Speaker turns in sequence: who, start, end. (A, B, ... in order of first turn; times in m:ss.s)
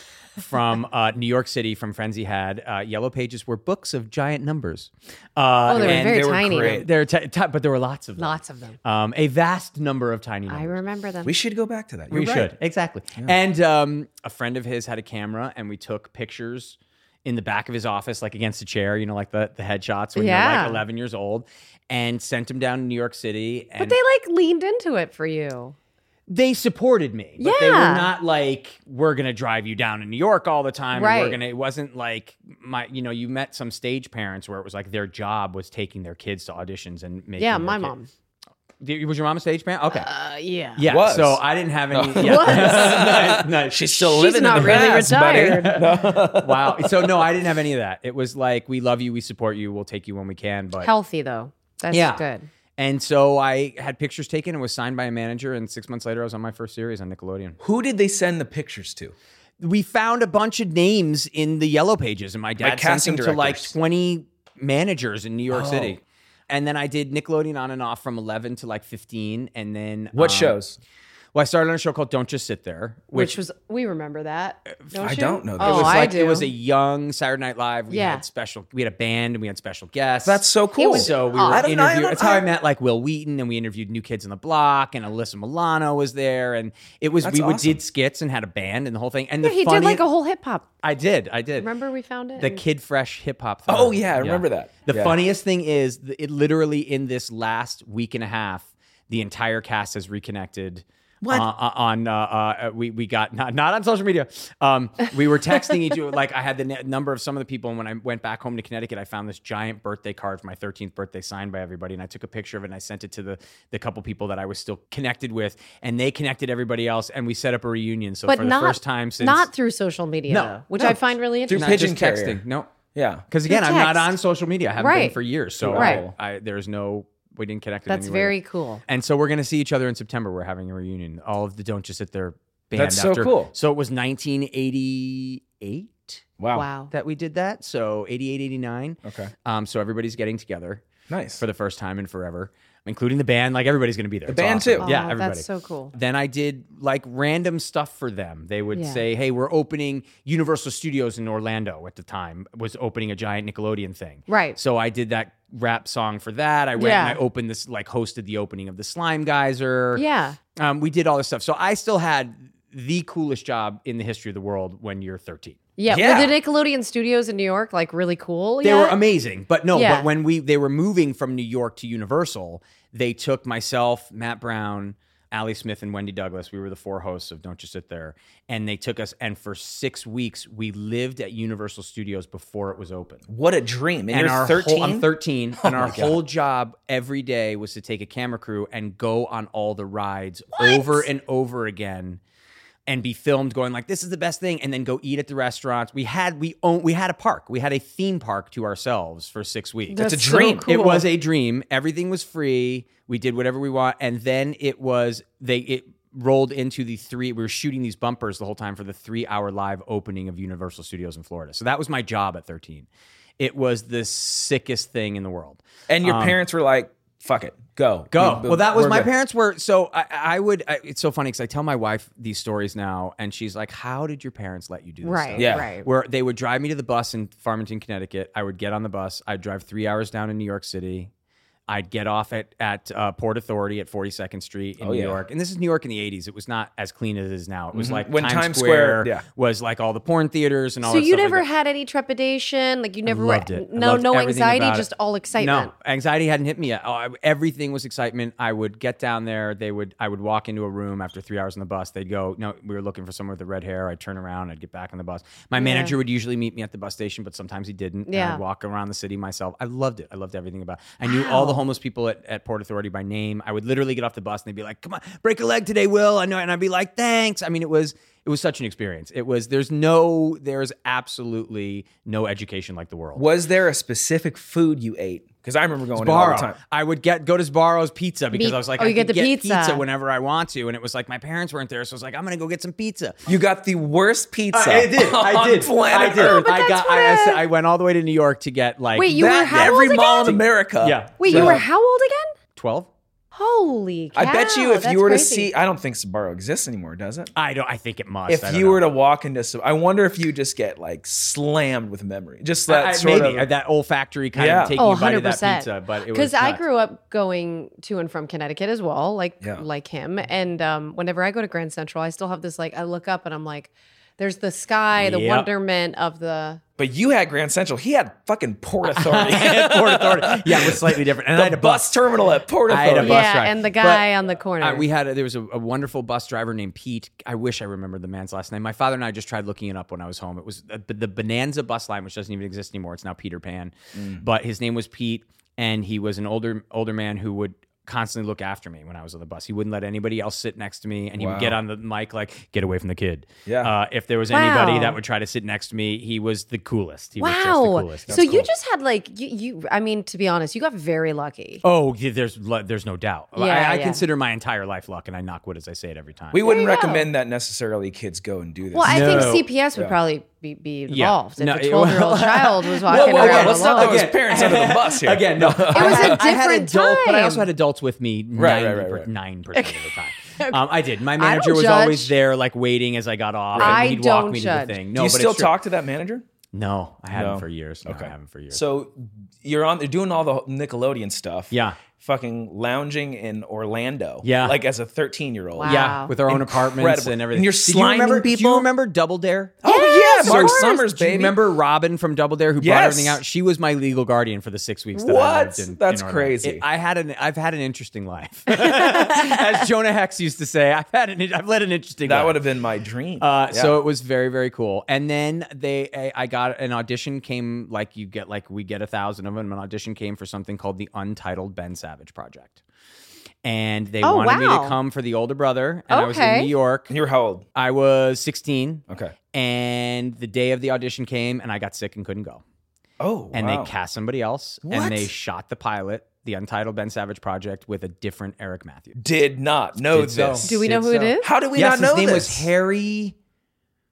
0:00.4-0:10.8 A
0:05.7-0:06.8 B
0:05.7-0:06.9 C
0:08.2-0:08.8 B
0:10.5-0:11.3 B
0:11.2-0:12.5 C
0:12.1-0:24.0 A
0:20.1-0:20.8 B
0:23.8-0:25.7 B
0:26.3-0:37.9 A
0:27.4-0:28.1 B
0:30.9-0:31.4 B
0:37.4-0:38.1 B
0:38.8-0:40.1 A
0:39.9-0:40.8 B
0:40.8-0:50.9 A
0:40.9-0:47.3 C
0:42.2-0:43.4 B
0:43.9-0:45.8 B
0:50.8-0:52.5 B
0:51.9-0:52.2 A
0:52.8-0:57.6 A
0:57.6-0:59.1 C
0:59.6-1:10.6 A
1:02.6-1:03.7 C
1:05.5-1:06.0 C
1:10.1-1:10.8 C
1:11.3-1:13.4 A
1:13.1-1:16.5 B
1:15.0-1:16.0 C
1:15.6-1:30.0 A
1:17.9-1:18.2 B
1:20.2-1:22.4 C
1:20.8-1:21.7 B
1:27.2-1:27.8 C
1:29.4-1:30.7 B
1:30.8-1:31.7 A
1:31.6-1:32.6 B
1:32.4-1:59.5 A
1:33.7-1:35.2 C
1:41.2-1:41.5 C
1:58.3-2:01.8 B
2:00.3-2:02.7 A
2:01.4-2:02.4 C
2:02.9-2:03.2 C
2:03.3-2:16.2 A
2:03.5-2:04.1 B
2:04.8-2:05.2 B
2:05.6-2:06.1 C
2:05.7-2:06.0 B
2:07.9-2:08.8 B
2:12.7-2:13.5 C
2:16.4-2:16.7 C
2:16.5-2:16.9 B
2:16.9-2:20.8 A
2:19.0-2:19.3 C
2:21.1-2:21.4 C
2:21.4-2:40.0 A
2:24.3-2:24.9 C
2:24.8-2:25.9 B
2:28.7-2:29.0 B
2:34.3-2:34.6 B
2:36.8-2:37.2 B
2:39.9-2:40.4 B
2:40.6-2:45.6 A
2:45.8-2:49.0 B
2:45.9-2:46.4 C
2:48.6-3:03.2 A
2:49.7-2:50.1 B
3:03.3-3:06.2 C
3:04.1-3:12.2 A
3:10.6-3:11.1 B
3:12.9-3:20.0 A
3:19.9-3:21.0 B
3:20.0-3:20.7 C
3:20.6-3:32.9 A
3:33.4-3:36.4 A
3:35.9-3:39.1 C
3:38.1-3:51.1 A
3:45.0-3:45.8 B
3:45.4-3:45.7 C
3:51.7-4:01.4 A
3:54.8-3:55.2 C
3:57.7-3:59.2 C
4:00.8-4:05.7 B
4:03.0-4:33.2 A
4:15.6-4:16.0 B
4:18.1-4:18.4 B
4:21.0-4:21.6 B
4:33.2-4:36.6 C
4:35.9-4:43.2 A
4:38.3-4:39.8 B
4:43.2-4:46.5 C
4:44.5-4:51.6 A
4:46.1-4:47.4 B
4:49.0-4:50.4 B
4:49.1-4:51.6 C
4:51.2-4:52.3 B
4:52.6-4:52.9 A
4:53.3-4:55.5 B
4:54.1-4:57.3 C
4:57.3-4:58.8 A
4:58.3-5:03.5 C
5:02.7-5:06.6 A
5:04.4-5:04.8 C
5:04.8-5:16.6 B
5:15.0-5:15.5 A
5:16.8-5:23.3 C
5:18.9-5:22.0 A
5:22.7-5:48.5 A
5:23.0-5:24.8 B
5:33.9-5:34.2 C
5:41.2-5:41.6 C
5:43.4-5:43.7 C
5:44.3-5:45.0 B
5:47.2-5:51.6 B
5:48.1-5:48.4 C
5:51.6-5:56.4 A
5:53.4-5:54.0 B
5:56.3-6:00.0 C
5:56.4-5:57.1 B
5:58.7-6:04.0 B
5:58.8-5:59.4 A
6:00.9-6:15.5 A
6:02.9-6:06.3 C
6:05.7-6:07.5 B
6:08.3-6:09.1 C
6:09.5-6:10.6 B
6:11.2-6:12.1 B
6:13.5-6:13.8 C
6:13.6-6:14.8 B
6:14.9-6:16.2 C
6:16.5-6:18.6 A
6:17.1-6:28.7 C
6:21.5-6:21.8 A
6:24.2-6:24.6 A
6:25.6-6:26.1 B
6:25.6-6:29.6 A
6:29.6-6:31.4 C
6:29.6-6:30.8 B
6:30.2-6:42.4 A
6:32.6-6:33.2 C
6:34.9-6:36.6 C
6:38.5-6:39.4 B
6:42.0-6:43.8 C
6:43.2-6:52.6 A
6:53.4-6:56.9 A
6:54.0-6:54.8 B
6:55.9-6:56.5 B
6:56.9-6:57.4 C
6:57.5-7:02.4 A
6:58.9-6:59.1 C
7:03.0-7:03.7 C
7:03.3-7:09.0 A
7:04.6-7:05.1 C
7:08.9-7:12.5 C
7:09.8-7:10.8 A
7:10.4-7:11.3 B
7:11.5-7:13.2 A